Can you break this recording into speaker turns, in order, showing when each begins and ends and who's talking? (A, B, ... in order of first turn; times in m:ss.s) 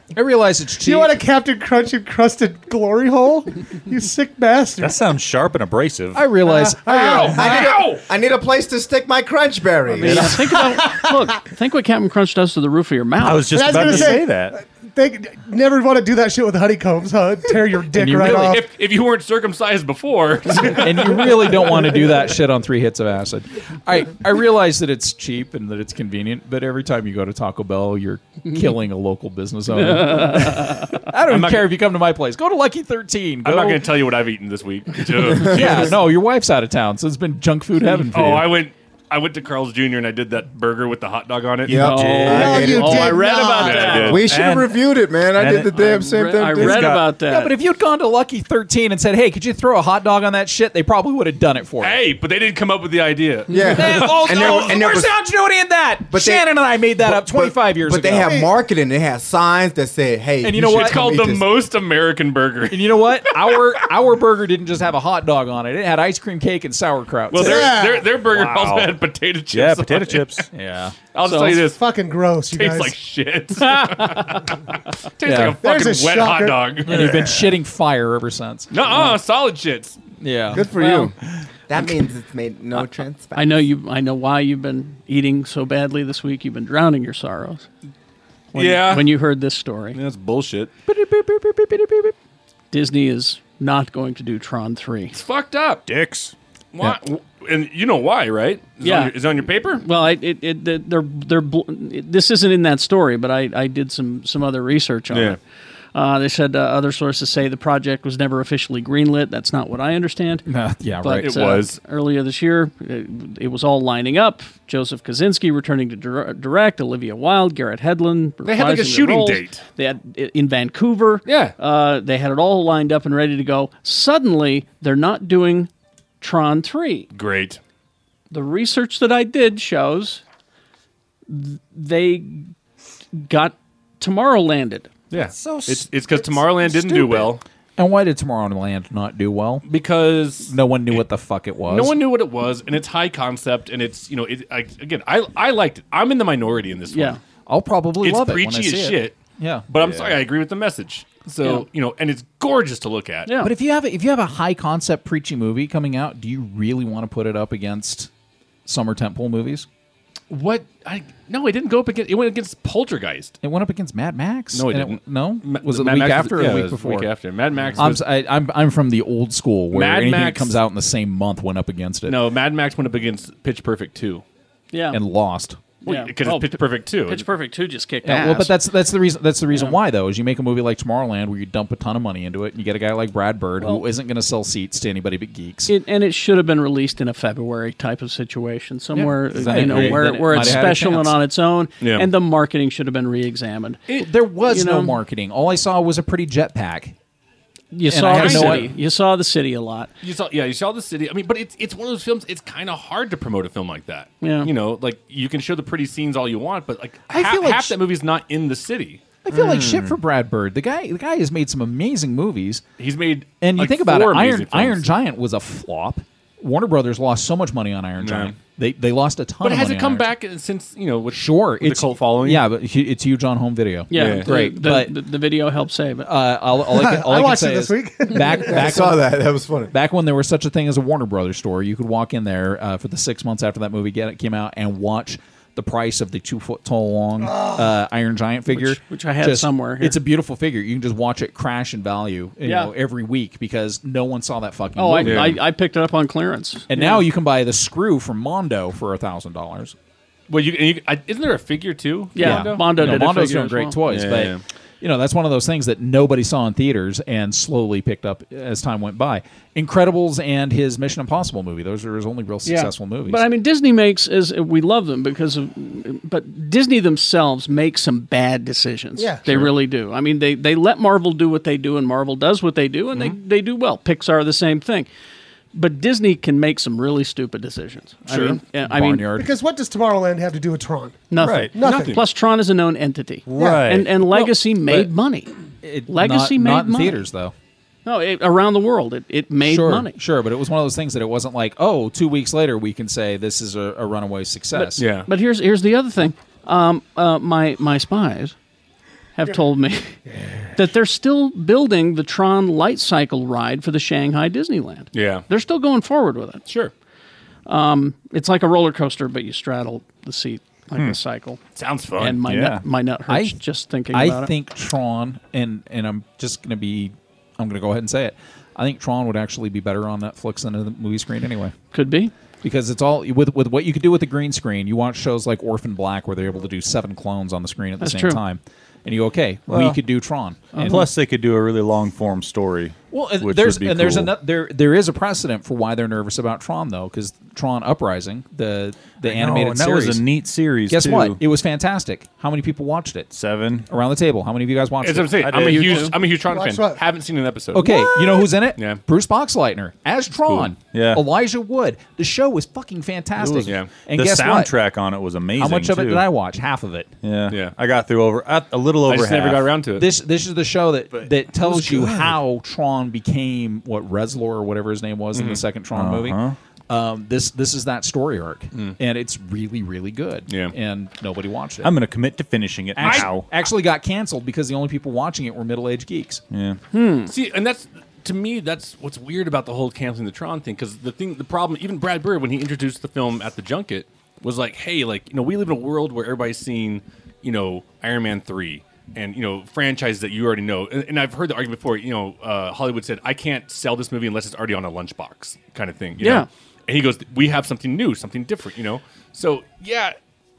0:00.1-0:01.1 A
0:00.8-0:05.0 B
0:04.8-0:06.3 C
0:06.1-0:07.3 A
0:06.4-0:07.8 B
0:06.9-0:08.0 D
0:07.2-0:10.3 E
0:09.9-0:14.2 F
0:10.0-0:10.4 C
0:10.6-0:11.3 B
0:13.2-0:14.6 C
0:13.5-0:18.6 B
0:17.9-0:18.6 A
0:18.2-0:21.8 D
0:20.8-0:33.9 A
0:29.8-0:30.8 F
0:31.3-0:31.7 D
0:33.4-0:36.0 D
0:35.3-0:36.0 E
0:35.4-0:38.6 A
0:38.1-0:41.8 D
0:41.7-0:43.3 E
0:41.7-0:44.2 F
0:42.0-0:42.5 A
0:42.2-0:44.2 B
0:43.6-0:44.3 D
0:43.9-0:47.0 E
0:44.2-0:45.9 C
0:45.8-0:47.5 F
0:46.5-0:47.0 C
0:47.2-0:52.0 A
0:51.8-0:54.7 D
0:53.5-0:55.2 E
0:53.6-0:58.4 A
0:56.1-1:01.6 E
0:58.2-0:58.5 B
1:00.4-1:01.2 A
1:00.6-1:03.6 D
1:02.7-1:07.8 A
1:07.3-1:10.5 D
1:07.3-1:08.2 B
1:08.2-1:09.0 C
1:09.5-1:10.4 C
1:10.5-1:11.0 A
1:11.1-1:11.8 D
1:11.2-1:11.6 F
1:11.7-1:13.0 B
1:12.5-1:14.6 D
1:13.6-1:14.4 F
1:15.2-1:17.2 D
1:15.2-1:15.6 A
1:15.6-1:16.8 B
1:16.9-1:18.7 A
1:17.0-1:17.3 C
1:18.7-1:20.0 D
1:20.2-1:20.7 A
1:20.5-1:21.2 E
1:20.8-1:21.1 F
1:21.7-1:23.6 E
1:23.4-1:27.7 F
1:28.5-1:30.0 F
1:28.6-1:29.2 D
1:29.9-1:30.7 D
1:30.9-1:32.0 A
1:31.3-1:32.1 F
1:32.7-1:35.2 F
1:35.1-1:35.8 D
1:35.9-1:36.3 C
1:36.7-1:39.8 D
1:38.8-1:39.1 F
1:39.8-1:45.4 F
1:45.1-1:45.4 D
1:46.0-1:50.4 F
1:50.5-1:51.4 A
1:51.0-2:05.7 F
1:51.2-1:51.8 D
1:58.4-1:59.6 D
2:01.3-2:01.6 D
2:06.2-2:07.1 F
2:07.1-2:07.6 D
2:08.3-2:10.2 F
2:11.3-2:12.5 F
2:13.2-2:14.9 F
2:15.1-2:17.4 D
2:15.4-2:15.8 C
2:16.4-2:17.2 C
2:17.8-2:19.7 A
2:19.7-2:21.0 D
2:20.4-2:22.0 A
2:21.7-2:27.2 D
2:26.9-2:27.2 F
2:27.5-2:29.7 A
2:28.0-2:29.2 D
2:29.7-2:33.3 D
2:29.8-2:30.2 C
2:33.3-2:33.5 F
2:33.4-2:38.1 A
2:38.7-2:39.7 A
2:40.3-2:43.4 D
2:43.4-2:47.1 A
2:44.5-2:48.0 D
2:47.8-2:52.2 A
2:49.7-2:50.6 D
2:52.1-2:54.2 D
2:54.7-2:55.0 F
2:54.9-2:55.6 A
2:55.8-2:57.2 D
2:55.8-2:58.6 F
2:58.0-3:05.7 A
3:05.7-3:13.9 F
3:08.9-3:11.2 A
3:09.5-3:10.6 D
3:11.8-3:12.1 D
3:14.0-3:17.0 A
3:14.5-3:15.0 F
3:17.7-3:19.9 F
3:17.8-3:18.7 A
3:18.1-3:18.7 D
3:20.0-3:29.0 D
3:24.2-3:24.5 F
3:27.1-3:27.8 A
3:29.2-3:32.6 A
3:29.3-3:29.9 E
3:32.8-3:34.9 D
3:33.4-3:40.1 A
3:38.0-3:38.4 D
3:39.4-3:42.4 D
3:41.1-3:45.0 A
3:43.9-3:46.1 F
3:43.9-3:44.3 D
3:46.0-3:49.2 A
3:46.7-3:48.7 B
3:48.4-3:49.7 E
3:49.7-4:05.4 A
3:57.2-3:57.7 B
3:58.5-4:00.0 F
4:02.4-4:02.7 F
4:04.8-4:07.0 F
4:05.0-4:05.4 D
4:06.7-4:09.8 A
4:10.3-4:13.0 D
4:12.2-4:13.8 F
4:12.2-4:23.3 A
4:13.9-4:14.4 D
4:22.4-4:34.9 F
4:29.0-4:29.2 B
4:35.5-4:39.0 F
4:38.1-4:39.3 A
4:39.2-4:42.0 B
4:41.1-4:45.3 F
4:41.2-4:41.5 C
4:41.6-4:42.0 D
4:43.3-4:43.9 C
4:43.3-4:43.8 B
4:45.6-4:47.3 A
4:45.9-4:47.0 F
4:47.9-4:50.0 F
4:49.4-4:54.9 A
4:54.5-4:58.4 F
4:54.8-4:55.1 D
4:59.2-5:00.0 F
5:00.5-5:06.4 F
5:04.9-5:05.2 D
5:06.5-5:06.7 D
5:07.5-5:11.4 F
5:11.6-5:12.2 D
5:12.0-5:14.3 F
5:12.2-5:12.6 C
5:13.1-5:13.4 A
5:13.9-5:21.6 A
5:21.7-5:22.1 F
5:22.4-5:30.8 A
5:27.8-5:28.2 F
5:29.5-5:29.8 C
5:30.5-5:30.9 F
5:30.6-5:34.1 C
5:32.9-5:40.1 A
5:39.0-5:41.2 C
5:40.7-5:43.1 A
5:43.1-5:43.7 C
5:43.7-5:45.5 A
5:44.8-5:47.8 D
5:45.2-5:45.9 C
5:45.4-5:46.0 F
5:46.2-5:46.8 B
5:47.5-5:54.5 A
5:48.6-5:48.8 D
5:50.7-5:51.0 C
5:53.4-5:56.0 C
5:55.4-5:56.9 A
5:57.0-5:59.6 C
5:57.3-5:57.6 D
5:58.9-5:59.9 D
5:59.8-6:11.7 A
6:01.4-6:02.2 C
6:05.1-6:05.4 D
6:05.7-6:06.4 C
6:10.3-6:10.5 D
6:11.6-6:13.3 C
6:12.8-6:16.2 A
6:12.8-6:13.1 D
6:16.3-6:16.6 C
6:16.7-6:17.1 F
6:17.1-6:40.0 D
6:36.0-6:36.3 F